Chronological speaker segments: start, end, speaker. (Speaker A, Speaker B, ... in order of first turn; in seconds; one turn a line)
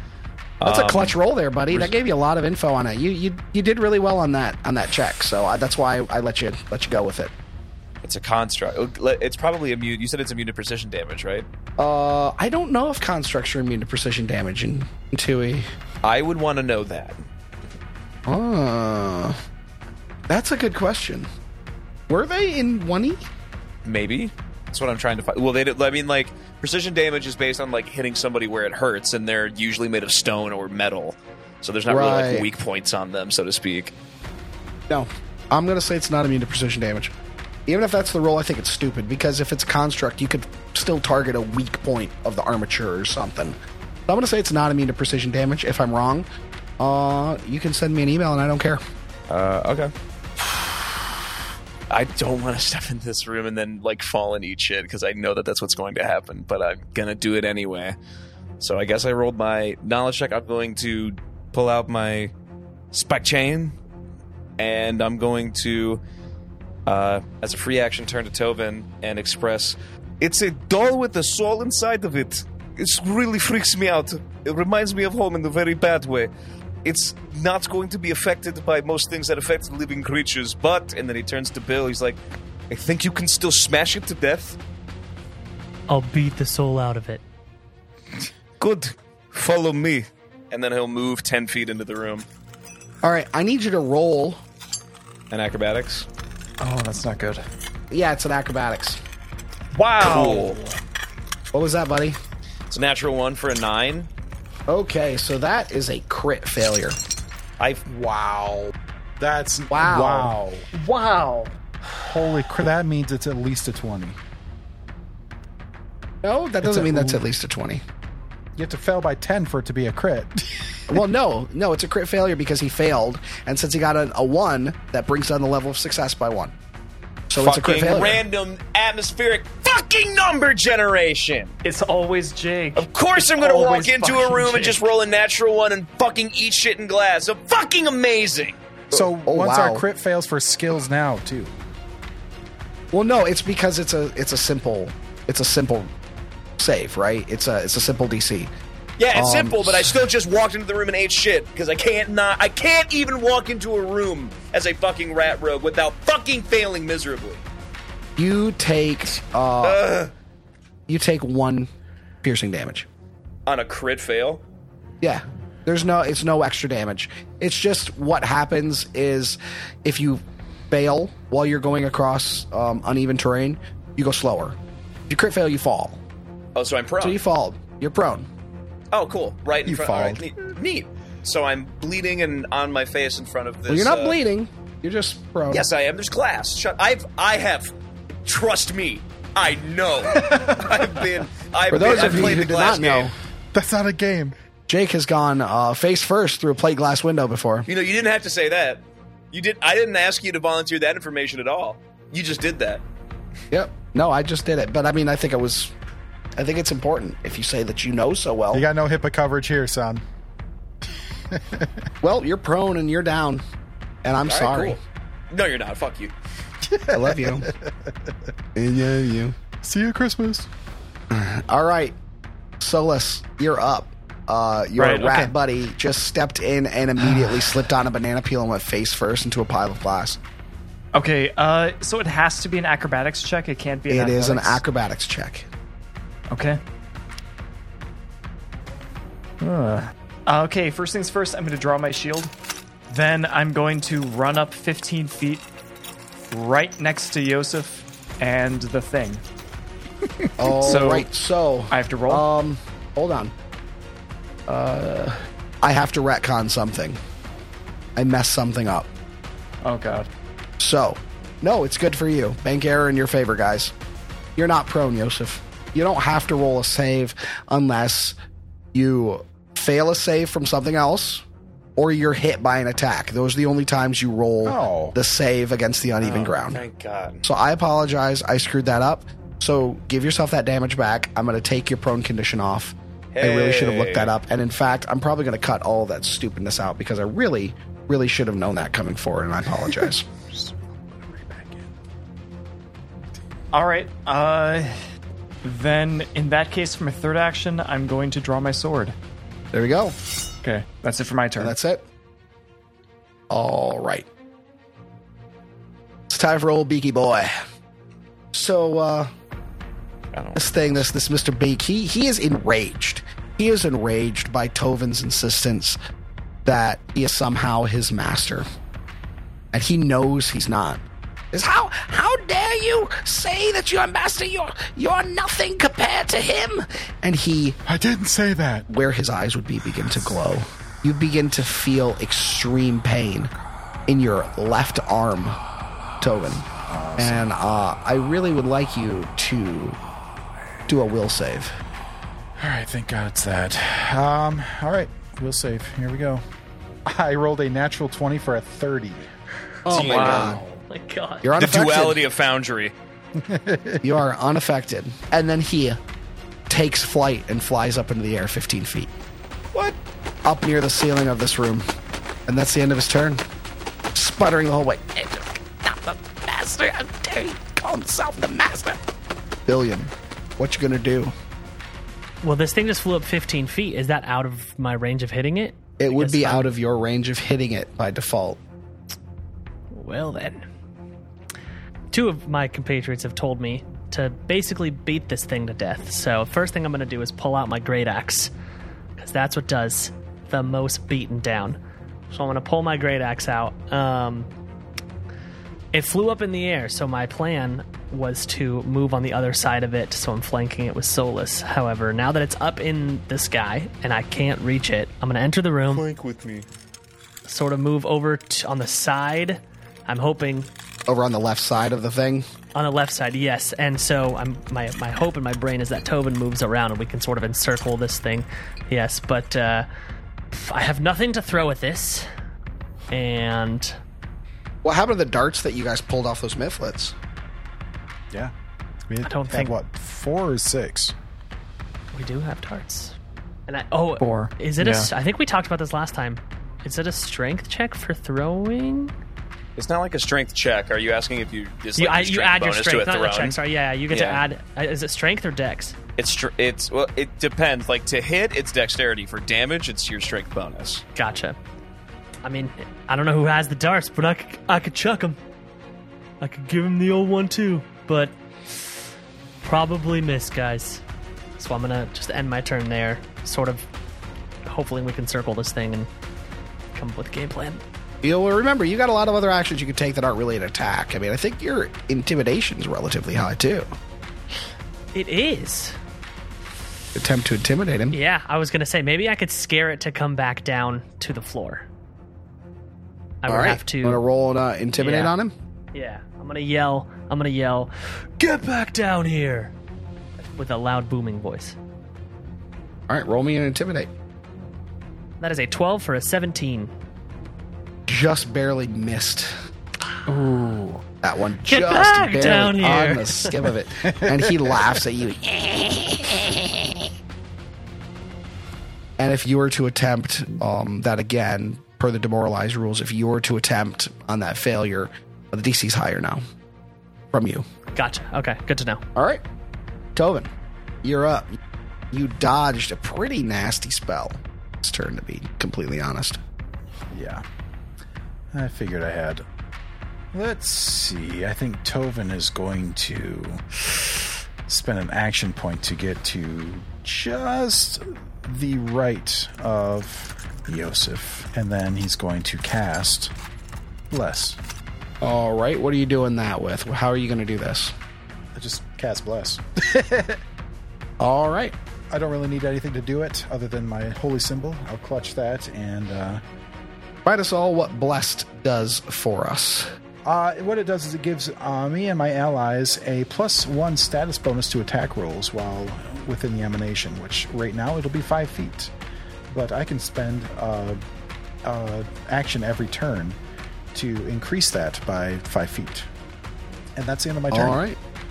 Speaker A: 0.6-1.2
Speaker B: 0.6-7.3
Speaker A: 1.7-1.9
Speaker A: 8.0-11.5
Speaker B: 11.8-15.7
Speaker A: 16.0-17.2
Speaker B: 18.3-19.4
Speaker B: 20.3-21.3
Speaker B: 22.1-23.2
Speaker A: 23.9-33.9
Speaker B: 31.9-32.5
Speaker B: 34.9-37.1
Speaker B: 37.7-46.3
Speaker B: 46.8-48.8
Speaker A: 49.3-49.9
Speaker A: 51.9-58.0
Speaker A: 58.6-62.3
Speaker A: 62.9-63.8
Speaker A: 64.6-66.0
Speaker A: 66.9-76.3
Speaker A: 76.8-84.6
Speaker C: 85.9-87.2
Speaker A: 88.6-92.3
Speaker B: 93.0-94.4
Speaker A: 95.3-96.1
Speaker D: 96.6-97.4
Speaker B: 97.9-99.0
Speaker A: 99.7-100.6
Speaker D: 100.0-100.6
Speaker B: 101.5-102.2
Speaker A: 102.7-104.1
Speaker B: 104.7-107.0
Speaker E: 107.9-110.7
Speaker B: 109.7-110.3
Speaker D: 110.7-111.5
Speaker E: 112.0-114.2
Speaker B: 116.2-117.8
Speaker E: 116.6-117.2
Speaker E: 118.6-121.0
Speaker B: 120.9-126.5
Speaker B: 127.3-128.2
Speaker A: 127.4-131.6
Speaker D: 131.6-134.9
Speaker A: 132.8-138.6
Speaker E: 138.9-141.6
Speaker B: 138.9-139.8
Speaker B: 142.9-145.9
Speaker B: 146.6-148.5
Speaker A: 149.0-157.4
Speaker B: 149.1-150.0
Speaker B: 158.2-159.8
Speaker A: 159.6-160.1
Speaker B: 160.9-161.7
Speaker B: 162.2-162.9
Speaker A: 163.5-164.4
Speaker B: 165.0-174.6
Speaker B: 175.1-176.0
Speaker A: 176.6-177.2
Speaker B: 177.0-178.3
Speaker A: 178.9-184.2
Speaker E: 179.6-180.3
Speaker B: 183.7-185.7
Speaker A: 185.5-193.1
Speaker E: 190.3-190.6
Speaker B: 191.7-193.1
Speaker E: 193.5-194.3
Speaker B: 194.7-197.7
Speaker A: 197.7-202.8
Speaker B: 203.5-205.7
Speaker B: 206.4-208.6
Speaker E: 208.5-210.0
Speaker E: 211.3-211.7
Speaker B: 212.0-213.4
Speaker B: 214.0-214.8
Speaker A: 214.2-214.8
Speaker A: 215.3-216.1
Speaker E: 216.6-218.1
Speaker B: 216.9-217.5
Speaker B: 218.6-219.3
Speaker E: 219.6-220.5
Speaker B: 221.1-222.0
Speaker B: 222.6-230.2
Speaker D: 224.8-225.3
Speaker D: 230.9-234.6
Speaker B: 233.9-235.5
Speaker D: 236.3-236.6
Speaker D: 239.4-242.3
Speaker D: 242.9-245.4
Speaker D: 246.3-249.2
Speaker B: 250.4-253.3
Speaker D: 250.6-251.1
Speaker D: 251.7-252.3
Speaker B: 254.5-257.0
Speaker B: 258.0-258.9
Speaker D: 259.6-260.1
Speaker B: 260.6-263.7
Speaker B: 264.4-268.1
Speaker B: 268.7-271.2
Speaker B: 271.8-276.6
Speaker E: 274.4-275.0
Speaker A: 276.0-277.2
Speaker B: 277.2-290.1
Speaker A: 283.1-284.1
Speaker E: 290.3-291.6
Speaker D: 293.5-294.7
Speaker D: 295.4-298.9
Speaker B: 299.5-300.0
Speaker D: 300.4-301.6
Speaker B: 301.4-301.8
Speaker B: 303.3-304.1
Speaker B: 306.1-307.4
Speaker B: 308.3-309.1
Speaker A: 310.1-310.9
Speaker B: 310.4-315.8
Speaker B: 316.4-318.5
Speaker B: 319.5-327.6
Speaker E: 327.6-328.7
Speaker B: 328.7-333.3
Speaker B: 333.9-335.4
Speaker B: 336.0-339.8
Speaker E: 336.7-337.3
Speaker B: 340.7-341.6
Speaker E: 342.4-346.2
Speaker E: 346.9-349.1
Speaker B: 349.7-350.4
Speaker A: 349.7-350.4
Speaker E: 349.7-350.6
Speaker D: 350.0-350.3
Speaker C: 350.7-351.3
Speaker B: 351.2-352.0
Speaker A: 351.4-352.7
Speaker E: 353.2-353.8
Speaker B: 353.8-355.8
Speaker B: 356.5-358.9
Speaker B: 360.2-361.6
Speaker B: 362.3-363.2
Speaker B: 363.9-368.8
Speaker B: 369.5-371.1
Speaker C: 372.2-376.5
Speaker B: 375.8-378.4
Speaker C: 379.7-380.4
Speaker C: 381.9-388.3
Speaker C: 389.0-391.6
Speaker C: 392.1-394.3
Speaker C: 395.7-405.9
Speaker A: 405.7-406.5
Speaker C: 407.3-410.5
Speaker B: 410.9-412.3
Speaker C: 412.6-419.7
Speaker C: 420.3-422.1
Speaker C: 422.9-423.8
Speaker B: 424.6-426.9
Speaker E: 428.9-430.9
Speaker C: 429.0-429.6
Speaker C: 431.9-432.9
Speaker C: 433.5-438.9
Speaker D: 434.0-434.9
Speaker A: 439.6-443.4
Speaker C: 441.8-445.8
Speaker A: 443.9-444.2
Speaker A: 446.0-450.8
Speaker C: 451.0-451.4
Speaker C: 452.2-455.2
Speaker C: 456.2-458.8
Speaker C: 459.4-460.8
Speaker C: 461.4-463.7
Speaker C: 464.4-465.9
Speaker C: 466.8-467.6
Speaker B: 468.0-473.7
Speaker C: 474.9-475.8
Speaker B: 476.9-478.0
Speaker C: 477.9-481.7
Speaker C: 483.2-484.0
Speaker B: 483.3-485.3
Speaker C: 484.8-485.1
Speaker C: 485.7-489.5
Speaker C: 490.2-491.6
Speaker B: 492.9-493.9
Speaker C: 495.2-496.7
Speaker B: 497.9-499.3
Speaker D: 500.1-500.8
Speaker B: 501.0-506.6
Speaker C: 501.5-503.3
Speaker E: 503.8-504.8
Speaker B: 509.0-516.2
Speaker B: 517.1-517.5
Speaker C: 517.7-518.8
Speaker B: 519.0-519.2
Speaker B: 520.0-520.3
Speaker B: 520.8-521.4
Speaker B: 521.9-526.2
Speaker E: 526.9-527.2
Speaker E: 528.3-529.2
Speaker E: 530.1-543.1
Speaker E: 543.9-544.4
Speaker B: 545.0-547.7
Speaker E: 548.4-550.2
Speaker B: 551.0-551.5
Speaker E: 551.9-556.2
Speaker B: 557.0-559.7
Speaker E: 560.0-568.7
Speaker E: 569.3-570.8
Speaker E: 571.4-573.2
Speaker E: 573.7-575.9
Speaker E: 576.8-577.6
Speaker B: 577.3-577.8